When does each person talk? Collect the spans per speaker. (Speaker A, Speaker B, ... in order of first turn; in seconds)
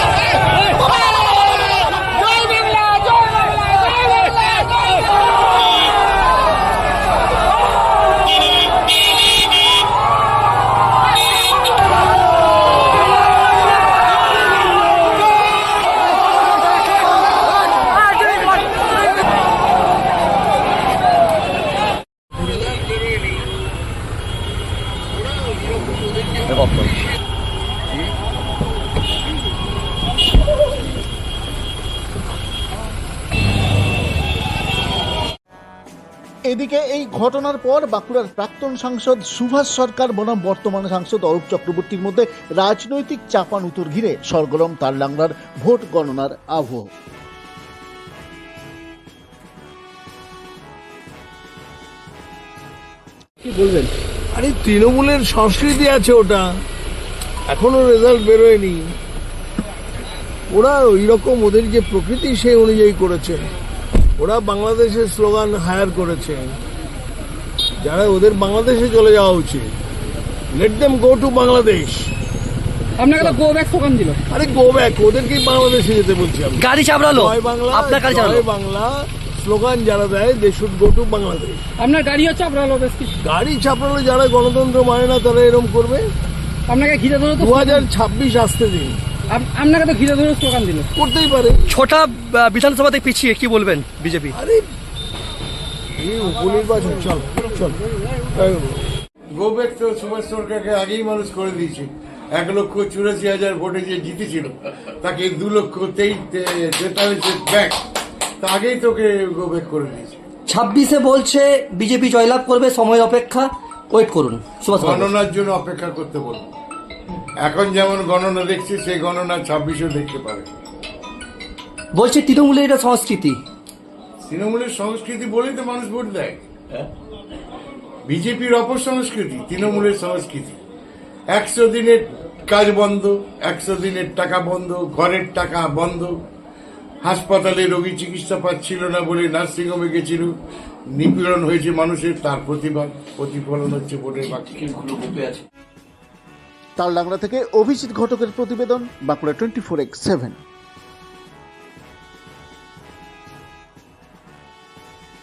Speaker A: 26.5-26.9, 76.6-78.4, 91.7-94.4, 110.5-115.1, 121.9-123.4
Speaker B: 36.5-46.9, 146.8-150.4
Speaker C: 53.4-53.9, 73.0-74.2, 81.8-83.1, 86.7-87.9, 89.3-90.9
Speaker D: 54.3-56.6, 57.5-58.9, 60.5-63.4, 64.2-66.5, 67.8-69.7, 70.5-72.1, 74.3-81.6, 83.2-86.1, 87.3-89.0, 91.0-91.7, 94.3-94.7, 96.0-98.8
Speaker E: 99.3-107.8, 108.4-110.2, 114.8-116.5, 117.4-120.5, 124.2-126.9, 128.1-130.6, 131.3-136.2, 137.0-140.3, 140.9-145.3